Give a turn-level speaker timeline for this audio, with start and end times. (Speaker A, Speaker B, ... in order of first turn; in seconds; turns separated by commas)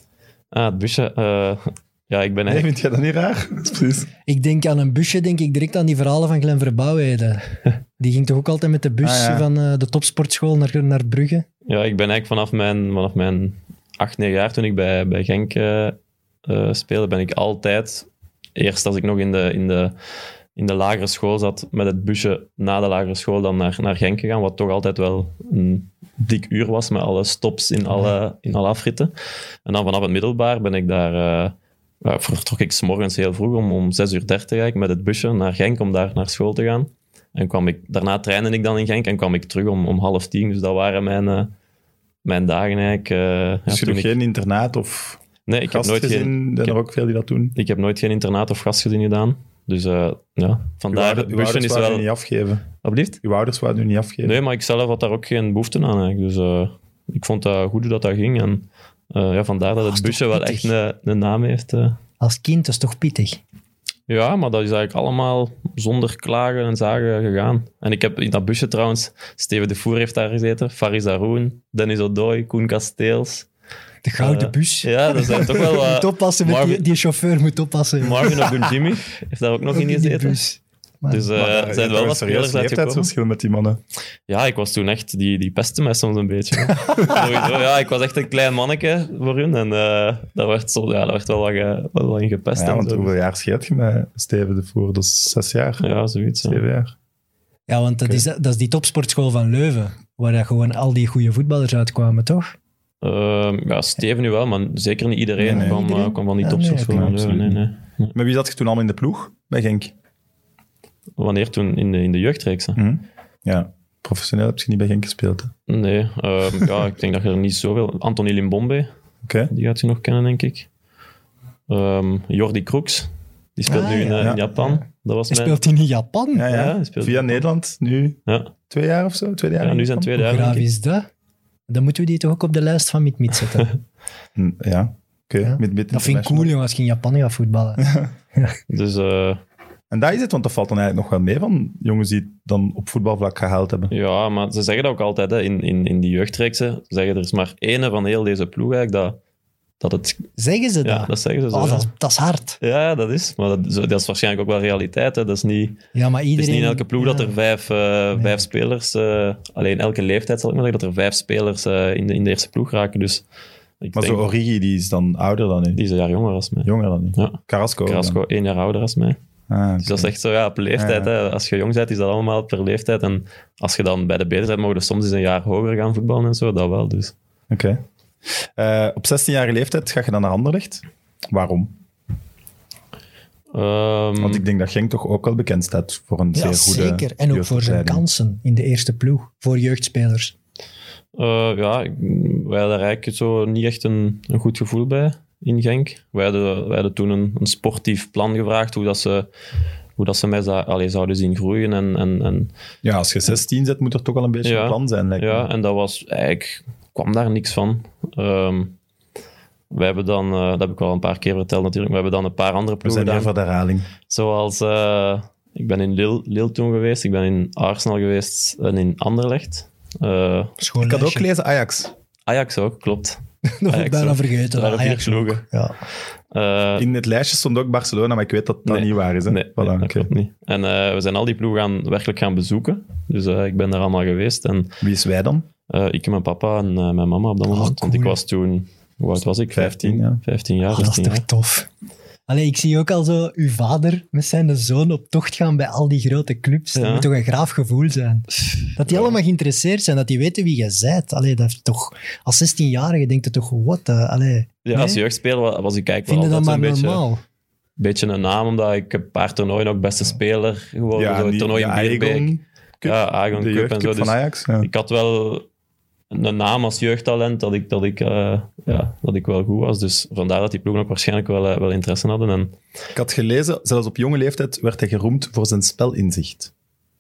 Speaker A: 0.5-2.7, Speaker B: 2.5-4.1, Speaker C: 4.3-11.5, Speaker B: 9.0-9.4, Speaker A: 11.7-19.9, Speaker A: 20.6-29.1, Speaker A: 29.7-41.5, Speaker A: 42.2-44.1, Speaker B: 43.7-47.5, Speaker A: 45.5-46.8, Speaker A: 47.5-52.1, Speaker B: 50.9-52.6, Speaker A: 52.8-53.2, Speaker B: 53.2-54.4, Speaker A: 54.2-62.0, Speaker C: 59.8-60.7, Speaker C: 62.2-63.4, Speaker A: 64.1-73.5, Speaker C: 74.0-78.8, Speaker A: 74.2-76.9, Speaker A: 78.0-80.4, Speaker C: 79.7-81.3, Speaker A: 81.1-83.1, Speaker B: 81.3-83.8, Speaker A: 84.3-93.1, Speaker B: 87.0-87.2, Speaker B: 92.6-95.9, Speaker A: 95.8-96.6, Speaker B: 96.4-96.9, Speaker C: 97.7-102.6, Speaker A: 103.0-108.1, Speaker C: 105.4-107.2, Speaker B: 105.4-105.8, Speaker B: 106.9-107.6, Speaker B: 108.1-109.9, Speaker A: 111.2-112.8, Speaker B: 112.8-115.5, Speaker A: 115.7-118.9, Speaker B: 119.2-119.5, Speaker A: 119.5-120.7, Speaker A: 121.7-125.6, Speaker C: 123.7-126.5, Speaker B: 126.3-130.1, Speaker A: 126.5-127.4, Speaker A: 128.3-128.5, Speaker A: 129.6-130.7, Speaker C: 130.1-131.1, Speaker C: 131.7-133.7, Speaker B: 134.4-136.5, Speaker C: 135.4-138.6, Speaker B: 137.8-138.1, Speaker A: 138.7-139.4, Speaker B: 139.9-143.9, Speaker A: 143.9-149.2, Speaker A: 149.8-150.3, Speaker C: 150.4-152.6, Speaker A: 150.8-151.9, Speaker A: 152.6-155.8, Speaker C: 155.9-157.3, Speaker A: 156.3-163.2, Speaker A: 163.8-164.2, Speaker B: 163.9-165.8, Speaker A: 165.8-169.2, Speaker B: 166.7-168.2, Speaker B: 169.5-170.1, Speaker A: 169.8-177.1, Speaker B: 170.8-171.1, Speaker B: 177.5-177.8, Speaker B: 178.6-181.7, Speaker A: 183.5-184.4, Speaker B: 184.2-188.0, Speaker C: 186.3-190.3, Speaker A: 191.2-199.3, Speaker A: 200.0-202.5, Speaker B: 202.8-205.5, Speaker A: 204.4-208.8, Speaker A: 209.7-213.3, Speaker B: 212.8-213.9, Speaker A: 214.1-220.6, Speaker C: 220.6-221.3, Speaker B: 220.8-221.9, Speaker A: 222.3-225.4, Speaker C: 223.4-225.7, Speaker A: 226.3-226.9, Speaker B: 226.8-230.1, Speaker A: 228.7-234.8, Speaker B: 234.8-235.5, Speaker A: 235.7-241.2, Speaker C: 237.5-238.2, Speaker B: 239.5-240.2, Speaker C: 240.7-241.7, Speaker C: 242.3-255.0, Speaker A: 246.8-247.1, Speaker A: 248.4-249.2, Speaker A: 254.7-257.0, Speaker C: 256.1-257.2, Speaker A: 257.8-262.3, Speaker B: 260.9-264.7, Speaker A: 262.8-265.5, Speaker A: 266.1-272.6, Speaker B: 272.9-276.5